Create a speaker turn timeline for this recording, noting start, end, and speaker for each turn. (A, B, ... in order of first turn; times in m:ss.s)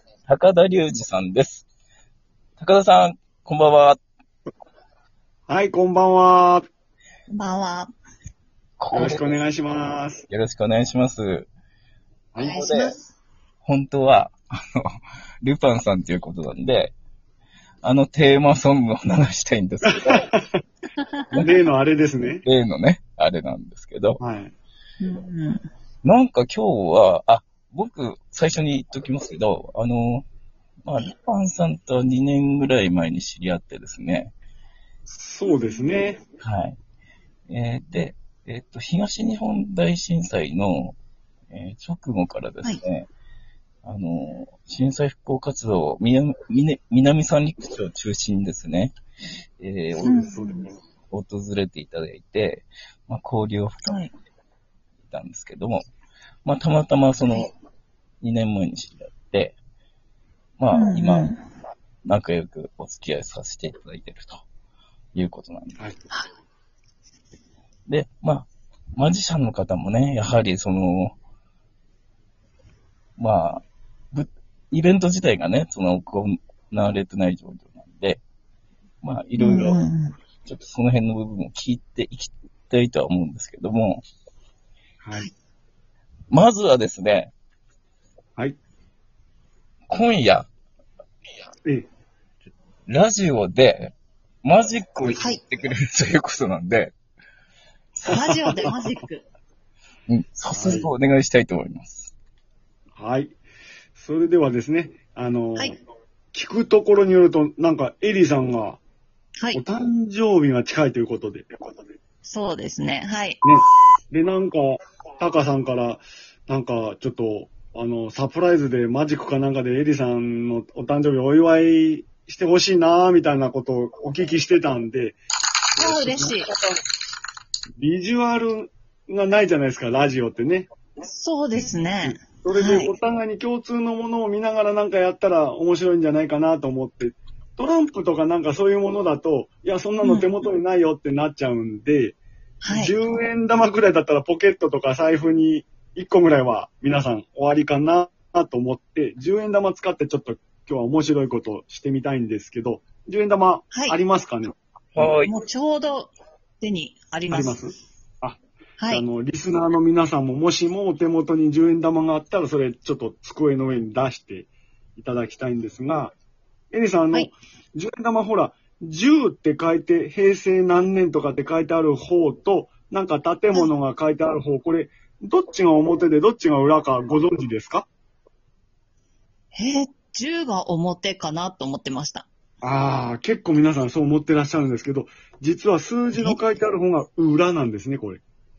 0:00.2-0:01.7 A
0:02.6-0:04.0 A
0:05.5-0:06.7 B
0:07.3-0:07.9 C
0:08.8-0:09.4 A
0:08.9-0:10.2 B
0:10.3-0:11.5 A
0:12.4-0:13.0 C
0:12.4-0:13.0 A
0:13.6-0:14.8 A
0:15.4-0:16.9 A
0:17.8-0:20.3 A
0:19.9-0:20.5 B
0:21.0-0:21.4 C
0:21.3-0:22.4 B
0:22.4-0:24.2 A
0:24.2-0:24.5 B
0:25.0-0:25.6 C
0:26.0-0:30.2 A
0:30.8-0:34.3 A
0:35.1-0:36.2 B
0:35.5-0:35.8 C
0:36.4-0:36.8 A
0:37.5-0:41.0 A
0:41.5-0:43.1 A
0:43.8-0:48.9 A
0:49.6-0:50.3 A
0:50.0-0:50.7 B
0:50.0-0:50.7 C
0:51.1-0:54.1 A
0:53.8-0:54.1 C
0:55.1-0:55.8 A
0:56.4-0:57.5 A
0:58.2-0:59.6 A
1:00.6-1:01.3 A
1:00.7-1:01.4 C
1:02.0-1:04.4 A
1:05.1-1:05.8 A
1:07.9-1:11.2 A
1:13.2-1:18.2 A
1:19.0-1:19.8 A
1:19.4-1:20.1 C
1:20.4-1:24.0 A
1:25.0-1:25.3 B
1:26.3-1:27.3 A
1:29.9-1:30.5 A
1:32.9-1:36.9 A
1:35.2-1:35.4 C
1:38.0-1:39.2 C
1:38.2-1:38.6 B
1:40.1-1:42.1 A
1:40.5-1:40.9 B
1:43.0-1:43.4 B
1:44.0-1:45.8 B
1:46.3-1:48.8 B
1:49.5-1:51.8 B
1:52.3-1:53.4 C
1:53.4-2:05.2 B
2:05.7-2:06.8 B
2:05.8-2:06.5 C
2:07.8-2:10.7 B
2:11.0-2:12.9 C
2:12.0-2:22.2 B
2:20.0-2:20.3 C
2:22.6-2:22.9 C
2:22.7-2:35.1 B
2:33.7-2:34.0 C
2:35.0-2:35.3 A
2:35.2-2:37.6 C
2:37.3-2:38.4 B
2:38.8-2:39.0 C
2:38.9-2:46.1 B
2:46.7-2:57.9 B
2:59.5-3:02.3 C
3:02.6-3:08.2 B